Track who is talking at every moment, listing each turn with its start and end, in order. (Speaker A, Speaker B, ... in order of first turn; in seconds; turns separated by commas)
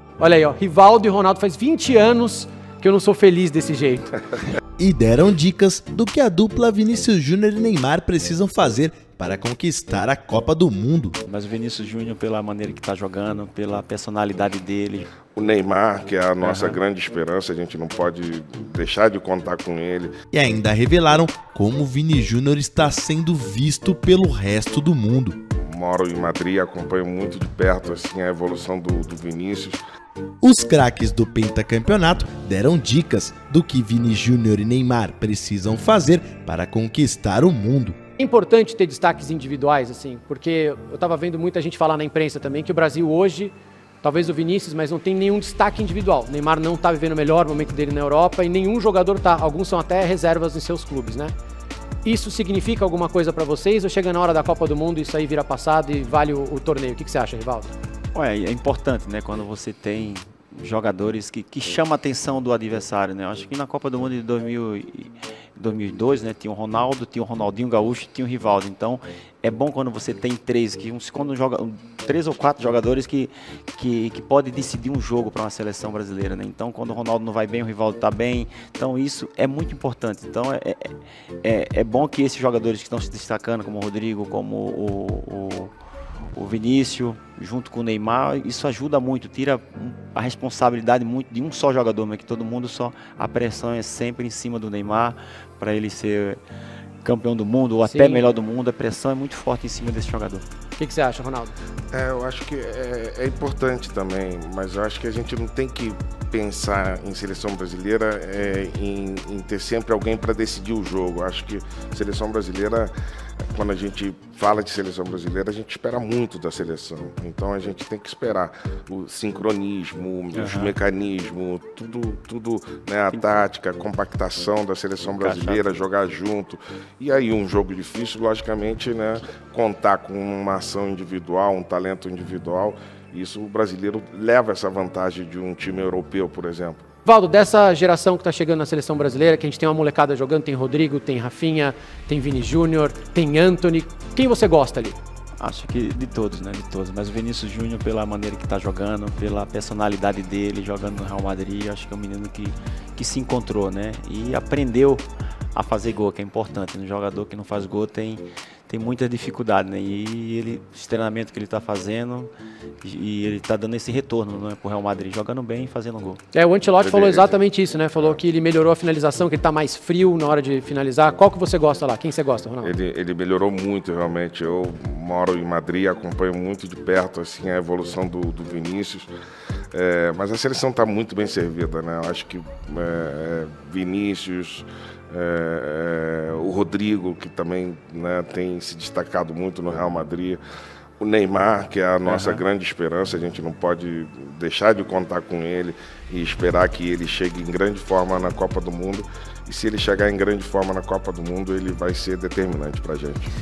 Speaker A: 0.2-4.3, Speaker B: 4.8-11.2, Speaker C: 11.2-15.1, Speaker D: 15.3-20.1, Speaker C: 16.4-16.8, Speaker B: 20.3-25.4, Speaker D: 25.6-29.8, Speaker B: 30.4-38.0, Speaker A: 38.2-51.3, Speaker A: 52.0-57.7, Speaker C: 58.1-85.7, Speaker C: 86.3-96.4, Speaker C: 97.0-100.4, Speaker A: 97.8-98.2, Speaker A: 100.8-101.5, Speaker D: 101.9-112.9, Speaker D: 113.5-136.8, Speaker C: 120.3-120.8, Speaker C: 125.2-125.7, Speaker A: 137.0-145.0, Speaker C: 145.4-162.3, Speaker C: 162.8-166.2, Speaker A: 166.3-172.7, Speaker D: 166.8-167.4, Speaker D: 167.9-168.2, Speaker D: 172.6-179.1, Speaker D: 179.7-190.4, Speaker D: 191.0-203.3, Speaker C: 192.0-192.4